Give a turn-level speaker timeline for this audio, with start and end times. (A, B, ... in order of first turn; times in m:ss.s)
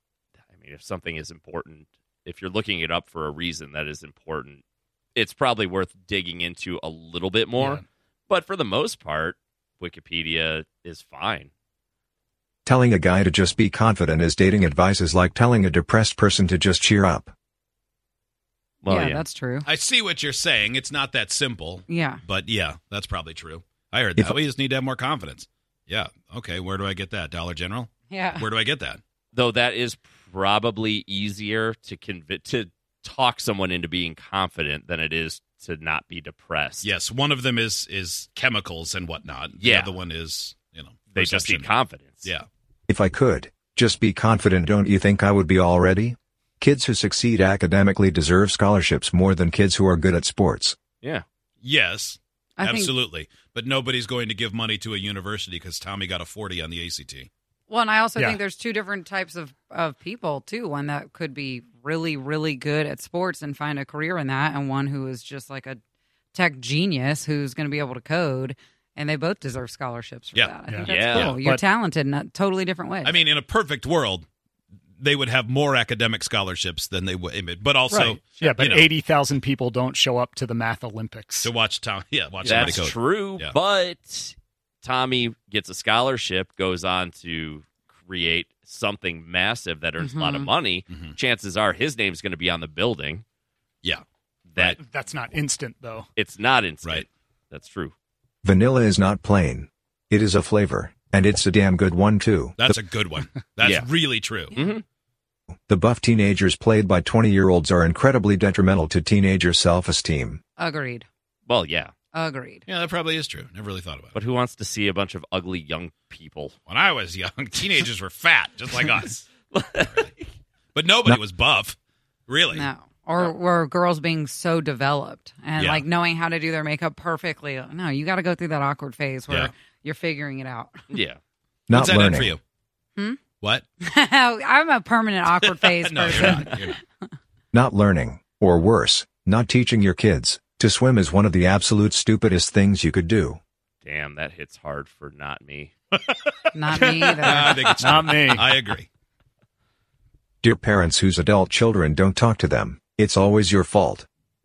0:00.5-0:04.6 A
0:05.2-0:11.5 A
0:07.6-0:07.8 B
0:12.6-0:17.3 C
0:18.8-0:19.2 A
0:18.9-0:19.6 D
0:19.6-0:29.0 E
0:21.9-0:22.2 D
0:28.1-0:28.4 D
0:29.3-0:36.9 A
0:36.8-0:41.7 E
0:39.6-0:40.0 A
0:41.1-0:42.3 A
0:42.9-0:50.8 C
0:51.6-0:57.3 E
0:52.6-0:52.9 D
0:57.7-1:05.8 D
0:58.2-0:58.4 B
1:06.3-1:13.1 D
1:10.3-1:11.4 E
1:10.6-1:11.6 B
1:10.8-1:11.4 A
1:13.0-1:14.2 E
1:15.0-1:18.9 E
1:17.9-1:21.5 B
1:21.4-1:23.5 E
1:22.4-1:33.2 A
1:30.0-1:30.5 D
1:30.9-1:31.1 E
1:34.5-1:34.8 A
1:34.8-1:36.1 B
1:36.2-1:37.9 A
1:38.4-1:42.7 C
1:42.6-1:44.6 E
1:43.6-1:43.9 A
1:44.5-1:44.8 A
1:45.7-1:50.4 C
1:50.6-1:51.1 D
1:51.5-1:51.9 A
1:52.1-1:52.6 D
1:52.7-1:54.2 E
1:54.1-1:56.6 A
1:56.7-1:59.2 E
1:58.7-2:00.2 A
2:00.7-2:01.8 E
2:02.3-2:02.7 E
2:02.6-2:10.7 D
2:05.6-2:05.8 E
2:10.9-2:11.2 A
2:11.7-2:12.3 C
2:11.7-2:12.4 E
2:13.8-2:16.3 D
2:15.3-2:16.8 E
2:16.1-2:16.4 C
2:16.2-2:16.5 A
2:17.5-2:23.4 C
2:23.8-2:25.7 A
2:25.9-2:28.9 E
2:26.5-2:27.4 D
2:27.2-2:28.0 A
2:27.7-2:28.5 B
2:30.4-2:34.0 C